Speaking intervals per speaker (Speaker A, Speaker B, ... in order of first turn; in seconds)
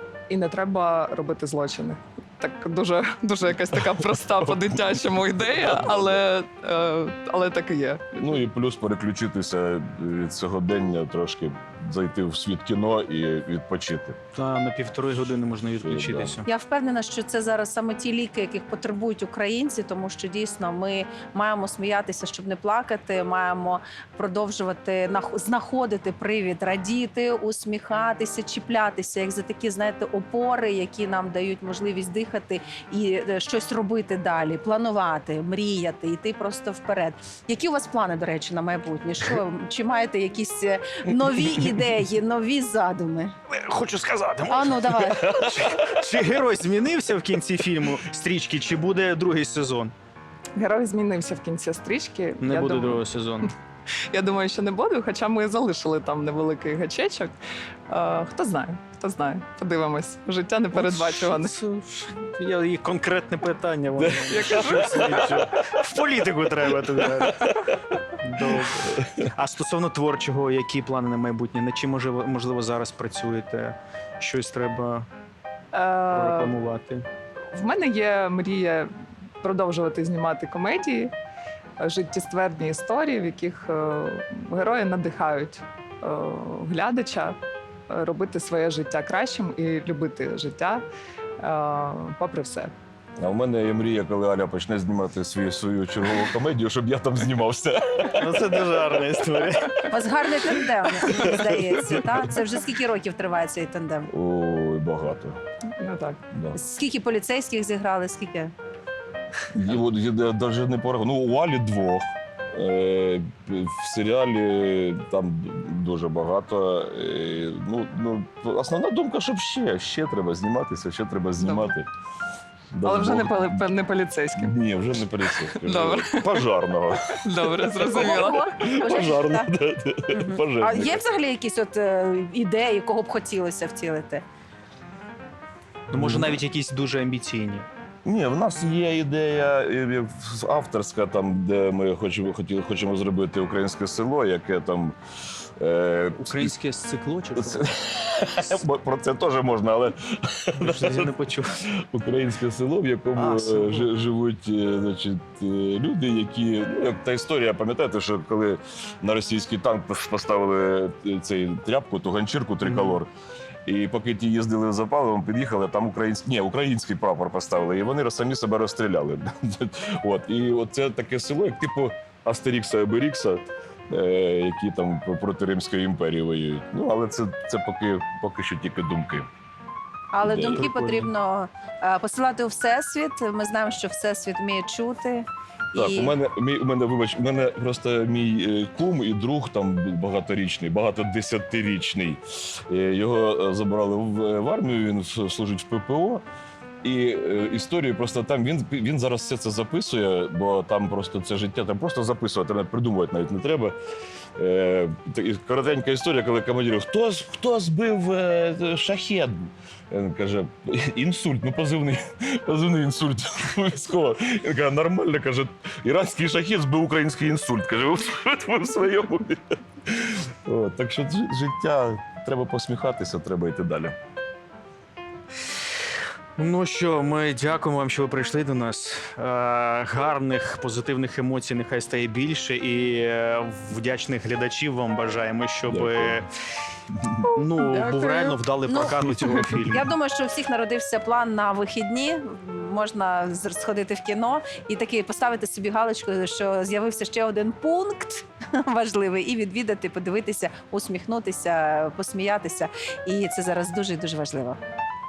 Speaker A: 0.3-8.4, 50.6-53.5, 54.1-57.3, 57.9-61.5, 64.3-65.0, 75.7-76.6, 77.5-78.9, 79.4-81.1, 81.8-87.3, 87.9-90.8, 91.4-92.7, 105.8-106.2, 121.4-121.7, 122.8-124.6, 125.6-126.4, 127.2-128.5
Speaker B: 4.2-6.2, 8.2-14.2, 15.8-16.4, 45.4-46.0, 64.0-65.8, 67.0-67.9, 68.9-69.3, 93.2-98.6, 101.1-102.1, 104.1-105.4, 109.5-121.9, 122.7-123.7, 124.3-127.6, 128.6-131.0, 135.9-136.4, 138.0-145.0, 145.6-146.5, 147.3-151.1, 151.7-163.1, 163.7-179.3, 180.2-181.1, 185.7-196.2, 196.8-203.7, 204.4-223.9, 235.7-236.2, 236.9-237.3
Speaker C: 14.3-16.5, 43.5-49.9, 52.4-53.5, 60.7-67.6, 68.2-75.1, 76.1-77.0, 98.1-99.9, 135.9-137.7, 146.2-147.7, 150.6-151.6, 153.2-153.9, 162.6-163.0, 180.5-181.1, 226.4-236.3, 237.3-239.9
Speaker D: 16.4-43.3, 44.5-45.4, 99.9-104.1, 106.5-108.5, 127.8-129.5, 130.1-134.2, 180.1-186.2, 237.6-254.6